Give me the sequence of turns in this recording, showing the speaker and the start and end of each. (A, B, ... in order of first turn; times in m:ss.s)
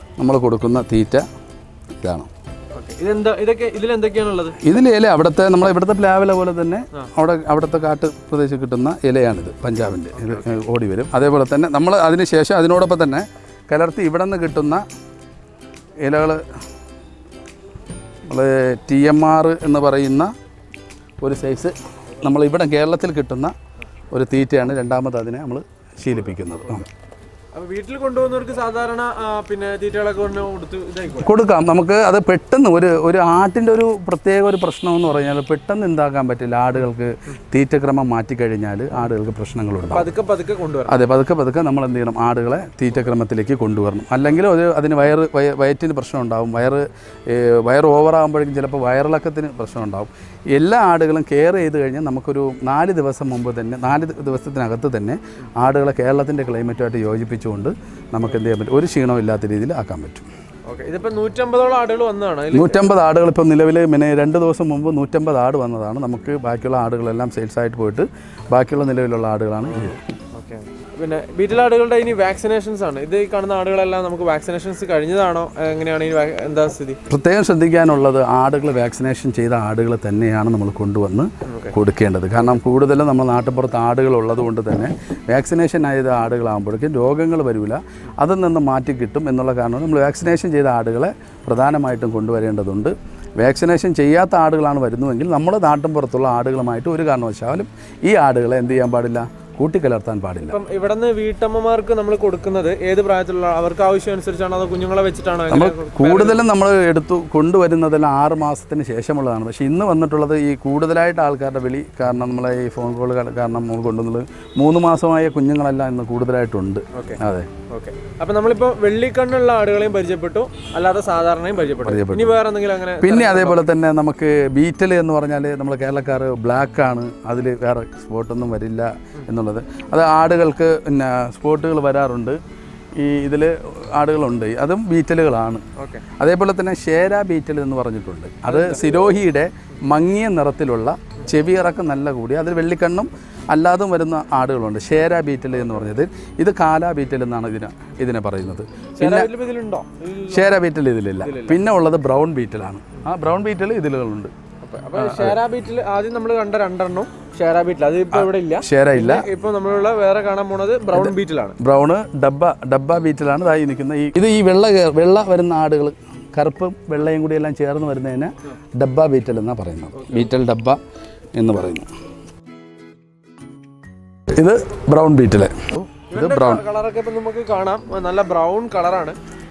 0:00.2-0:01.2 A
0:02.0-0:02.3 A
0:02.7-0:04.6 B
0:04.6-0:14.8 A
0:10.1-0:10.5 B
0:16.0-0:16.5 A
0:18.3-0:20.3 A
0:21.2-0:23.5 A
0:24.1-0:26.9 A
0:27.5-0:31.4 B
0:31.2-0:40.1 A
0:39.9-0:41.0 B
0:40.9-1:00.3 A
1:00.7-1:02.9 B
1:02.5-1:10.0 A
1:09.7-1:17.0 B
1:17.1-1:40.6 A
1:21.5-1:21.7 B
1:40.5-1:46.4 B
1:45.5-1:57.5 A
1:56.9-1:57.2 B
1:57.7-2:03.6 B
2:01.8-2:02.4 A
2:03.0-2:12.4 A
2:13.0-2:15.6 A
2:15.8-2:16.0 B
2:16.2-2:29.3 A
2:18.5-2:19.0 B
2:25.6-2:25.9 B
2:29.0-2:30.6 B
2:30.3-2:34.3 A
2:31.2-2:31.6 B
2:34.6-2:41.6 B
2:34.9-2:35.4 A
2:38.1-2:39.3 A
2:40.9-2:50.8 A
2:49.9-2:50.3 B
2:51.3-2:51.9 A
2:54.3-2:56.6 A
2:56.1-2:59.2 B